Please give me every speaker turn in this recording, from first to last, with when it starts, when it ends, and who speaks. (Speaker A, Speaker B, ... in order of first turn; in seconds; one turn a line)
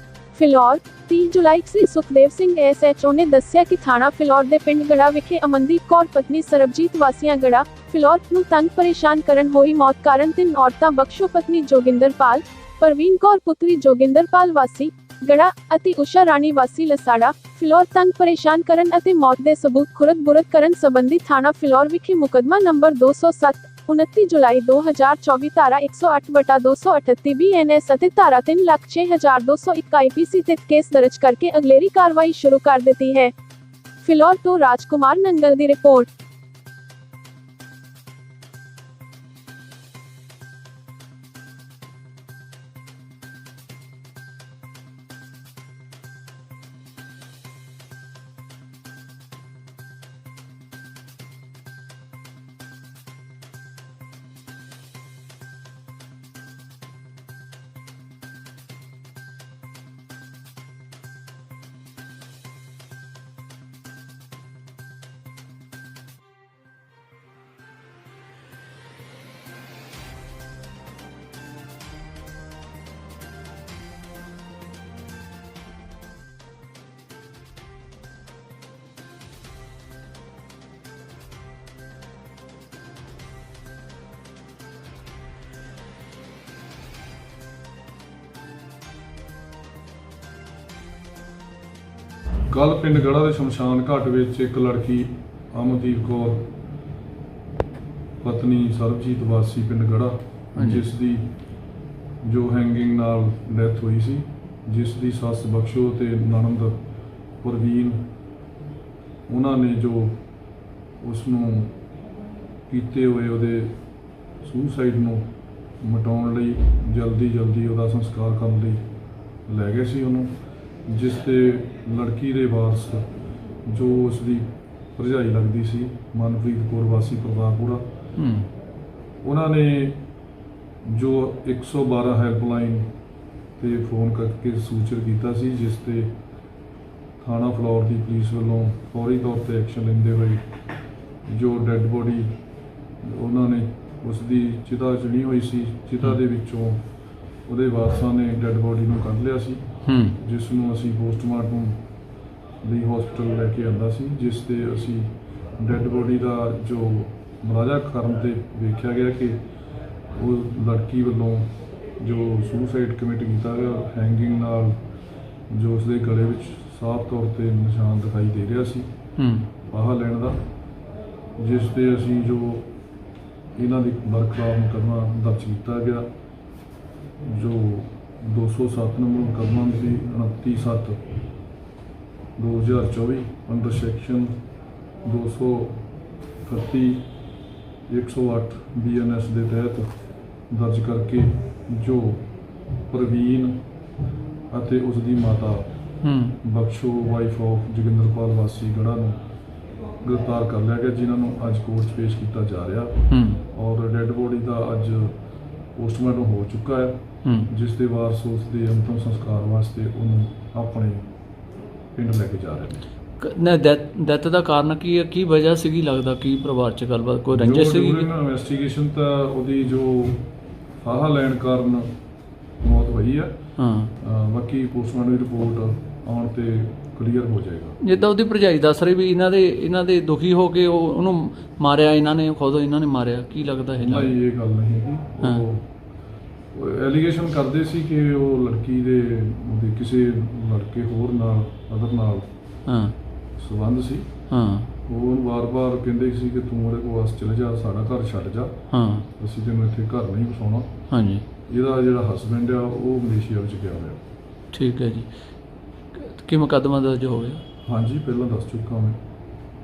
Speaker A: 0.3-33.3
Speaker A: 34.0-36.1
Speaker B: 92.5-96.5
Speaker B: 98.2-101.3
Speaker C: 100.6-100.9
Speaker B: 102.2-106.8
Speaker B: 107.4-108.0
Speaker B: 109.3-110.2
Speaker B: 111.0-111.8
Speaker B: 112.7-113.8
Speaker B: 114.4-115.3
Speaker B: 115.8-118.8
Speaker B: 119.5-120.3
Speaker B: 120.9-123.1
Speaker B: 123.7-127.8
Speaker C: 128.2-128.5
Speaker B: 129.2-130.0
Speaker B: 130.8-132.9
Speaker B: 133.6-136.1
Speaker B: 137.2-140.4
Speaker B: 141.3-142.3
Speaker B: 143.0-146.8
Speaker B: 147.5-149.6
Speaker C: 149.9-150.2
Speaker B: 150.2-151.8
Speaker B: 152.6-159.4
Speaker B: 160.1-164.8
Speaker B: 165.5-168.9
Speaker C: 169.2-169.5
Speaker B: 169.7-170.4
Speaker B: 171.4-172.7
Speaker B: 173.6-176.1
Speaker B: 177.2-181.0
Speaker B: 182.4-184.3
Speaker B: 185.0-185.8
Speaker B: 186.4-187.0
Speaker B: 187.9-189.9
Speaker B: 190.5-192.3
Speaker B: 192.9-193.6
Speaker B: 194.5-195.7
Speaker C: 196.0-196.4
Speaker B: 196.4-199.2
Speaker B: 200.0-205.2
Speaker C: 203.1-203.4
Speaker B: 205.8-211.1
Speaker C: 207.2-207.5
Speaker B: 211.9-212.8
Speaker C: 213.2-218.1
Speaker B: 217.3-220.2
Speaker B: 220.8-221.9
Speaker B: 222.6-223.4
Speaker C: 223.6-223.9
Speaker B: 224.0-227.8
Speaker C: 227.8-234.2
Speaker B: 233.8-235.7
Speaker B: 236.5-242.3
Speaker C: 242.7-242.9
Speaker B: 243.4-244.1
Speaker C: 244.3-244.7
Speaker B: 244.9-248.5
Speaker C: 248.7-249.1
Speaker B: 249.2-250.7
Speaker C: 250.9-251.2
Speaker B: 251.5-254.0
Speaker C: 254.5-255.1
Speaker C: 255.9-257.4
Speaker B: 257.6-259.0